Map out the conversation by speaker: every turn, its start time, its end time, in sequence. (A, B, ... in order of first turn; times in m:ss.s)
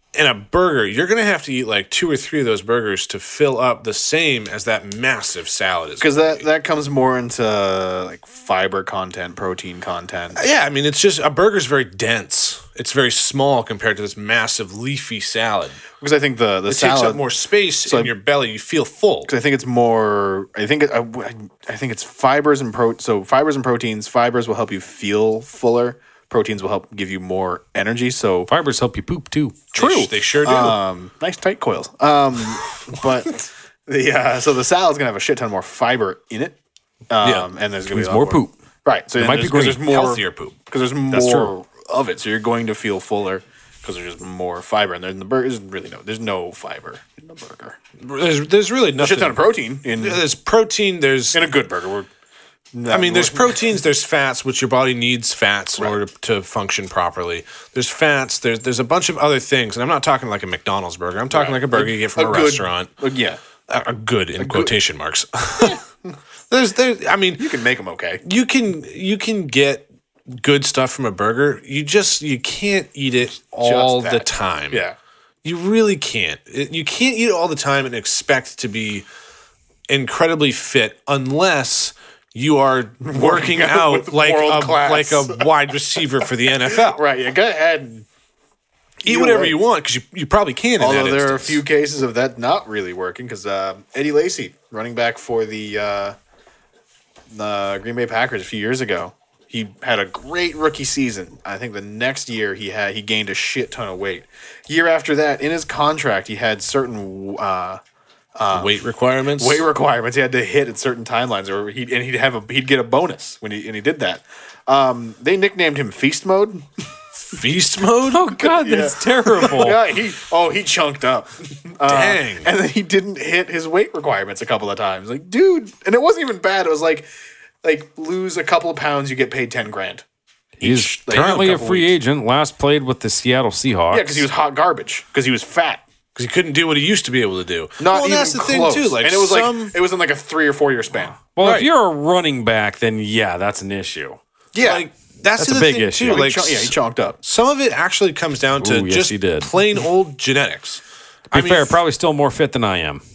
0:00.1-0:06.4 A
0:06.0-0:10.4 B
0:10.4-0:15.8 A
0:16.0-0:17.2 B
0:16.7-0:19.3 A
0:17.8-0:18.1 B
0:19.3-0:28.5 B
0:28.5-0:29.6 C
0:29.7-0:36.6 B
0:29.8-0:30.8 A
0:37.1-0:47.8 B
0:37.9-0:38.5 C
0:39.2-0:39.8 C
0:39.4-0:40.5 A
0:41.1-0:41.5 C
0:48.0-0:49.4 A
0:49.0-0:50.2 B
0:50.0-0:51.4 A
0:51.3-0:52.1 B
0:52.7-0:53.6 B
0:52.9-1:02.9 A
1:01.3-1:03.4 B
1:03.7-1:05.8 A
1:04.4-1:04.7 B
1:05.6-1:06.1 B
1:06.5-1:07.5 A
1:07.4-1:08.2 B
1:08.2-1:14.8 A
1:13.6-1:15.0 B
1:15.4-1:19.0 A
1:19.9-1:27.0 A
1:23.0-1:25.4 B
1:26.6-1:28.1 B
1:29.0-1:31.6 A
1:29.0-1:29.6 B
1:30.8-1:36.2 B
1:37.3-1:47.8 B
1:48.4-1:48.8 B
1:48.5-1:49.6 A
1:49.4-1:56.7 B
1:57.3-1:58.2 A
1:58.1-1:59.8 C
1:58.3-2:07.1 B
2:01.8-2:02.5 A
2:07.6-2:10.0 B
2:10.6-2:11.9 B
2:10.6-2:14.2 C
2:11.1-2:11.6 A
2:13.9-2:15.8 B
2:16.1-2:19.7 A
2:17.8-2:21.2 B
2:21.3-2:24.2 C
2:21.4-2:21.7 A
2:24.5-2:24.8 B
2:24.6-2:31.8 A
2:25.4-2:26.2 C
2:26.0-2:27.2 B
2:28.6-2:29.5 C
2:31.3-2:33.0 C